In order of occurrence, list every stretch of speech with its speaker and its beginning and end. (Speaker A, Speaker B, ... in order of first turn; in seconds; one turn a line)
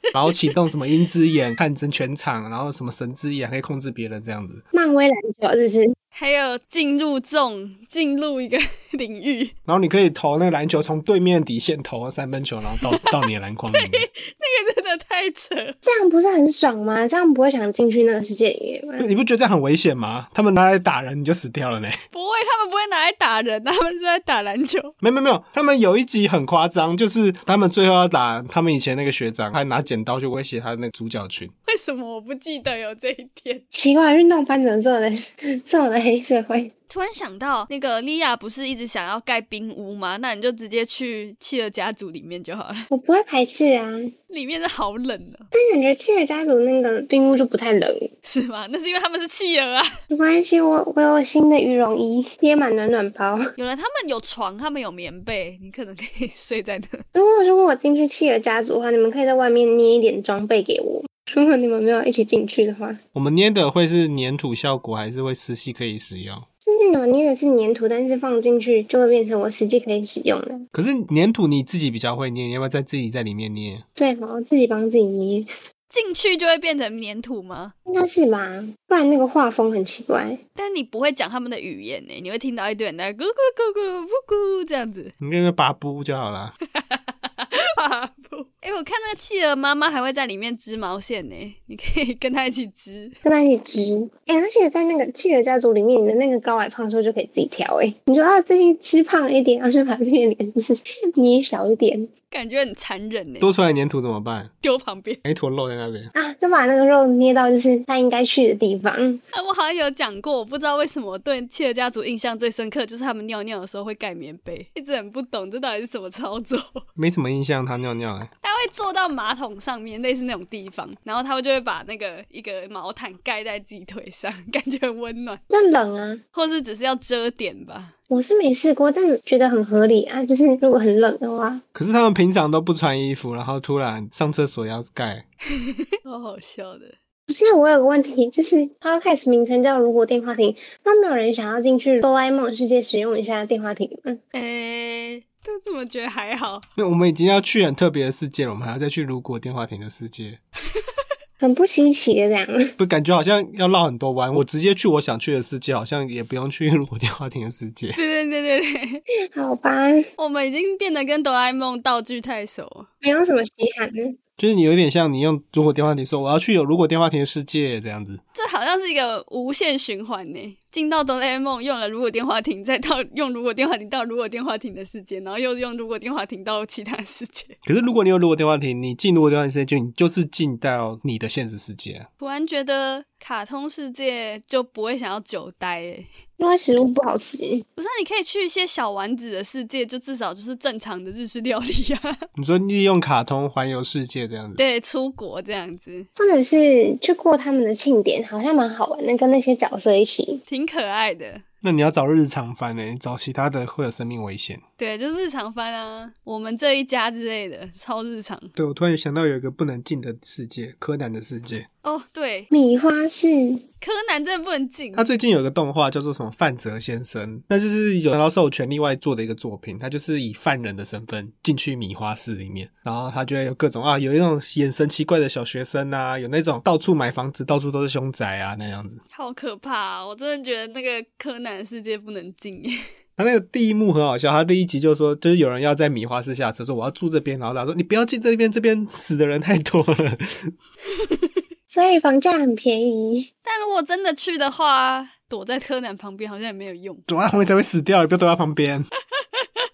Speaker A: 0.1-4.6
Speaker B: 4.7-5.9
Speaker C: 6.1-9.5
Speaker A: 9.7-14.1
Speaker C: 12.8-15.8
Speaker B: 15.8-19.1
Speaker A: 19.0-22.0
Speaker C: 22.1-24.9
Speaker A: 25.0-31.5
Speaker C: 31.6-33.6
Speaker B: 33.7-36.7
Speaker C: 36.9-42.9
Speaker B: 42.9-44.1
Speaker C: 44.3-45.5
Speaker B: 45.5-48.1
Speaker C: 48.2-49.9
Speaker B: 50.1-53.5
Speaker C: 53.5-57.0
Speaker B: 57.1-63.0
Speaker A: 63.1-66.5
Speaker B: 66.6-70.7
Speaker A: 70.7-73.8
Speaker B: 74.0-75.5
Speaker C: 75.9-77.7
Speaker B: 77.9-80.4
Speaker C: 80.5-85.1
Speaker A: 85.2-86.5
Speaker C: 86.7-93.2
Speaker B: 93.2-102.1
Speaker C: 102.3-103.5
Speaker A: 103.4-104.5
Speaker C: 104.6-105.2
Speaker A: 105.2-106.1
Speaker B: 106.1-109.2
Speaker C: 109.3-116.8
Speaker A: 117.0-118.3
Speaker C: 118.4-125.4
Speaker B: 125.5-126.2
Speaker C: 126.3-127.9
Speaker B: 128.1-131.6
Speaker A: 131.7-135.2
Speaker C: 135.6-136.9
Speaker B: 137.3-144.2
Speaker C: 144.3-146.7
Speaker A: 146.8-150.4
Speaker B: 151.4-152.6
Speaker A: 152.8-158.0
Speaker C: 157.9-159.0
Speaker B: 159.3-160.1
Speaker C: 160.2-162.9
Speaker B: 163.0-164.2
Speaker A: 164.4-168.2
Speaker C: 168.3-177.6
Speaker A: 177.7-182.1
Speaker C: 182.2-186.1
Speaker B: 186.4-187.6
Speaker C: 187.8-192.2
Speaker A: 192.3-194.6
Speaker C: 194.6-196.1
Speaker B: 196.2-200.4
Speaker C: 200.5-201.4
Speaker A: 201.6-204.6
Speaker C: 204.8-208.5
Speaker A: 208.6-211.7
Speaker C: 211.8-212.5
Speaker B: 212.5-213.6
Speaker C: 213.8-215.1
Speaker A: 214.9-229.0
Speaker C: 229.1-232.8
Speaker A: 233.2-240.5
Speaker C: 241.0-241.3
Speaker B: 241.7-243.3
Speaker C: 243.4-247.1
Speaker A: 247.1-248.8